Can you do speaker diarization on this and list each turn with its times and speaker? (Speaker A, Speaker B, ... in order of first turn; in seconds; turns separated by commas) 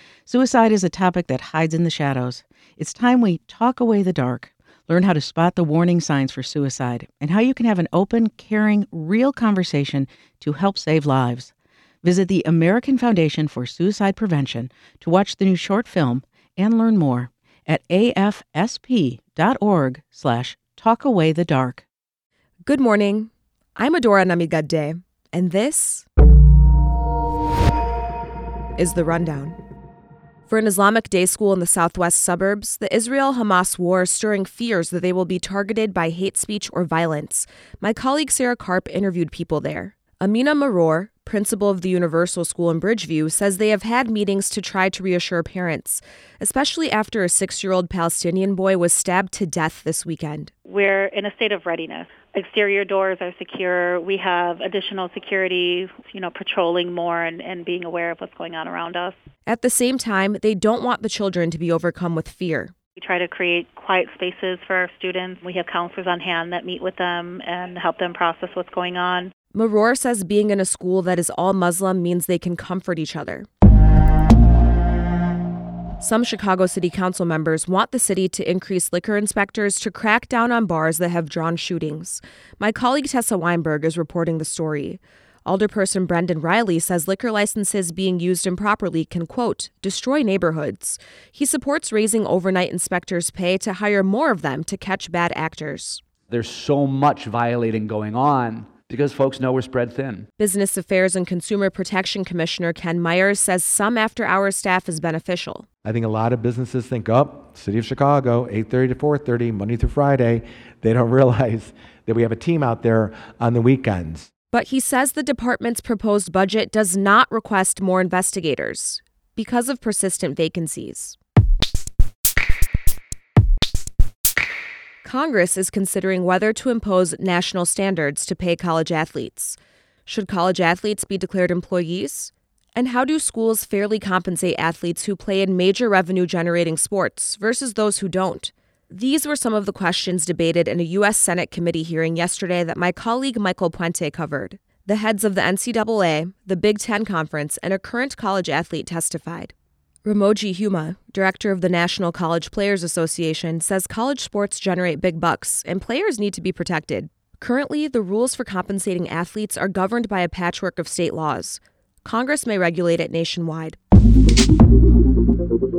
Speaker A: 0.2-11.5, Speaker A: 12.0-21.8, Speaker B: 22.6-26.0, Speaker B: 28.8-29.6, Speaker B: 30.5-50.5, Speaker C: 50.7-59.1, Speaker B: 59.5-62.7, Speaker C: 63.0-69.3, Speaker B: 69.5-73.5, Speaker B: 76.0-96.0, Speaker D: 96.3-100.2, Speaker B: 100.4-105.7, Speaker E: 105.8-114.3, Speaker B: 114.5-121.2, Speaker B: 125.0-149.5, Speaker B: 150.0-163.8